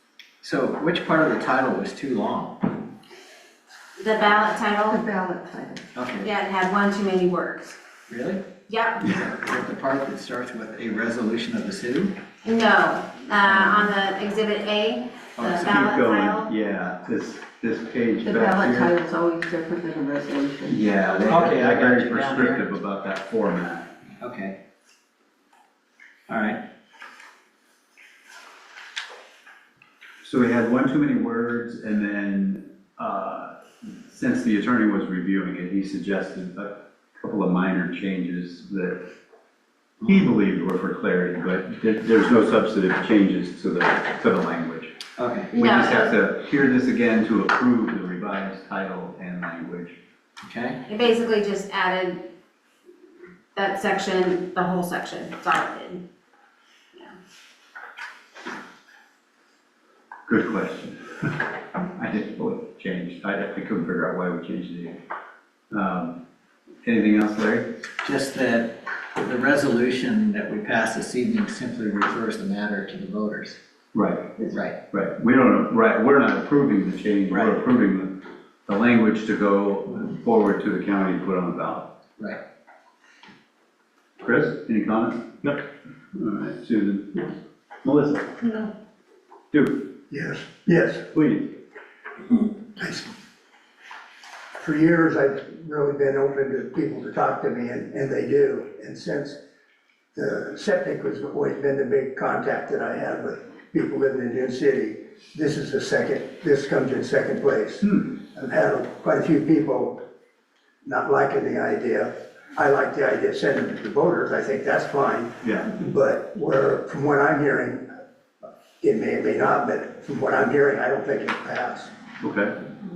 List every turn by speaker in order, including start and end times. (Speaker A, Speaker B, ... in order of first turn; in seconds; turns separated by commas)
Speaker A: 0.4-2.9, Speaker B: 4.0-5.0, Speaker C: 4.9-5.8, Speaker A: 5.9-6.3, Speaker B: 6.2-7.8, Speaker A: 8.1-8.5, Speaker B: 8.7-9.2, Speaker A: 9.0-12.2, Speaker B: 12.4-16.5, Speaker A: 13.6-13.9, Speaker A: 15.4-15.8, Speaker D: 15.6-18.9, Speaker C: 18.2-20.8, Speaker D: 20.7-23.9, Speaker A: 21.3-22.6, Speaker A: 24.2-24.6, Speaker A: 26.3-26.6, Speaker D: 30.2-39.0, Speaker D: 40.0-44.9, Speaker A: 45.2-45.5, Speaker B: 45.5-46.2, Speaker D: 45.6-49.9, Speaker A: 50.4-50.8, Speaker B: 50.9-52.3, Speaker B: 53.5-56.0, Speaker D: 60.3-61.4, Speaker D: 62.0-65.0, Speaker D: 65.7-66.2, Speaker D: 66.8-67.7, Speaker A: 68.0-73.6, Speaker D: 73.9-81.9, Speaker A: 74.5-74.8, Speaker A: 77.3-77.6, Speaker D: 84.2-85.5, Speaker D: 86.1-87.3, Speaker D: 87.8-88.4, Speaker D: 89.5-89.8, Speaker E: 90.1-91.0, Speaker D: 91.1-91.6, Speaker E: 92.8-93.1, Speaker E: 94.6-99.3, Speaker E: 100.1-110.0, Speaker E: 110.8-117.8, Speaker D: 115.4-115.7, Speaker E: 118.8-121.9, Speaker D: 122.2-122.5